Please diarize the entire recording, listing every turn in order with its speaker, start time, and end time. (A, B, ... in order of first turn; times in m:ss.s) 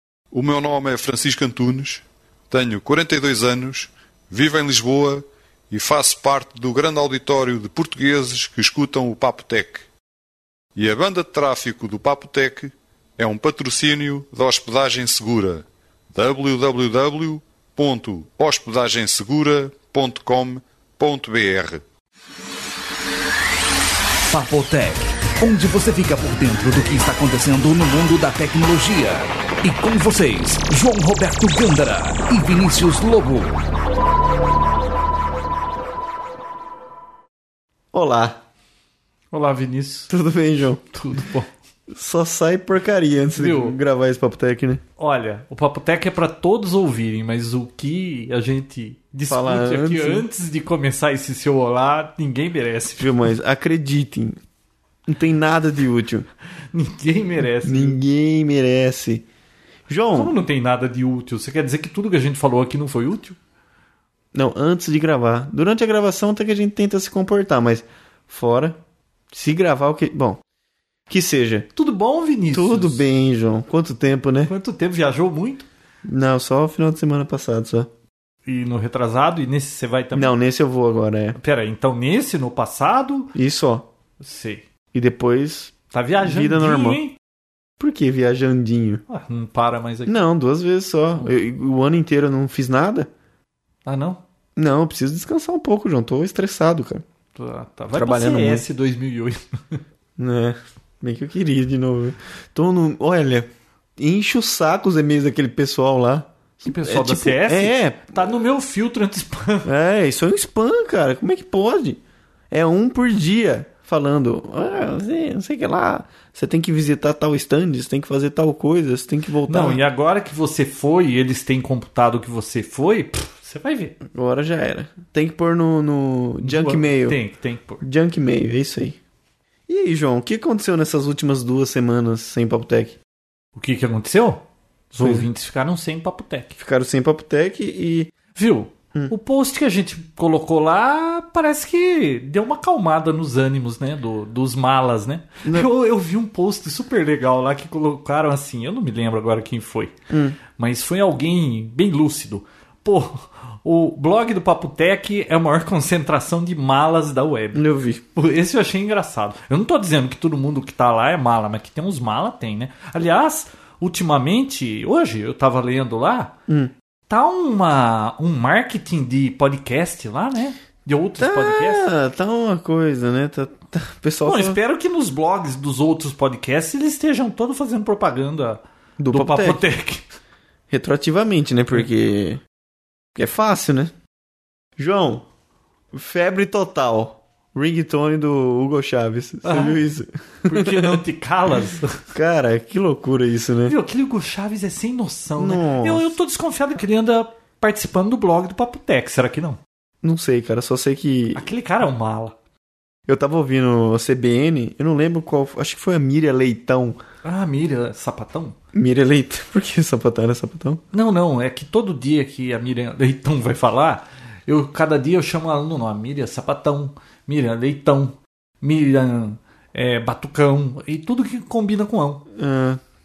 0:00.3-0:09.8 A
0:10.8-0:21.8 A
0:24.3-0:33.6 B
0:37.9-0:38.4 C
0:39.3-0:40.1 D
0:40.1-0:40.8 C
0:40.9-0:41.5 D
0:41.9-0:44.8 C
0:43.4-0:43.8 D
0:45.0-0:53.2 D
0:49.3-0:50.2 C
0:53.0-0:54.4 C
0:55.1-0:56.3 C
0:56.7-0:58.0 D
0:57.6-0:59.3 C
0:59.9-1:00.3 C
1:00.1-1:03.4 D
1:04.3-1:08.8 C
1:09.3-1:10.4 C
1:11.1-1:11.7 C
1:11.8-1:13.0 D
1:12.5-1:14.5 C
1:14.5-1:15.7 D
1:16.0-1:17.9 C
1:18.4-1:20.3 D
1:20.1-1:21.4 C
1:21.4-1:23.3 D
1:23.3-1:23.9 C
1:24.2-1:24.6 D
1:24.9-1:27.0 C
1:25.9-1:27.2 D
1:27.8-1:29.0 C
1:29.1-1:30.1 D
1:30.1-1:33.1 C
1:33.8-1:34.2 D
1:34.6-1:37.0 C
1:37.3-1:39.8 D
1:37.9-1:38.7 C
1:40.2-1:48.3 C
1:46.6-1:49.7 D
1:49.6-1:52.0 C
1:52.5-1:59.8 C
1:59.5-2:04.0 D
2:04.1-2:07.2 C
2:06.4-2:07.8 D
2:07.8-2:09.0 C
2:09.7-2:13.0 C
2:13.6-2:16.6 D
2:16.6-2:18.1 C
2:18.3-2:29.9 D
2:30.1-2:30.4 C
2:30.6-2:46.3 D
2:37.5-2:38.0 C
2:46.5-2:46.7 C
2:47.1-2:51.8 D
2:51.2-2:54.6 C
2:54.2-3:00.0 D
2:59.0-2:59.6 C
3:00.7-3:02.4 C
3:03.1-3:03.9 C
3:04.8-3:05.2 C
3:05.9-3:11.0 C
3:09.4-3:09.8 D
3:10.5-3:12.0 D
3:12.1-3:13.8 C
3:13.7-3:19.6 D
3:15.4-3:16.1 C
3:20.0-3:21.4 C
3:21.4-3:22.4 D
3:23.1-3:27.0 C
3:27.2-3:28.6 D
3:28.7-3:30.8 C
3:30.9-3:42.2 D
3:42.3-3:42.8 C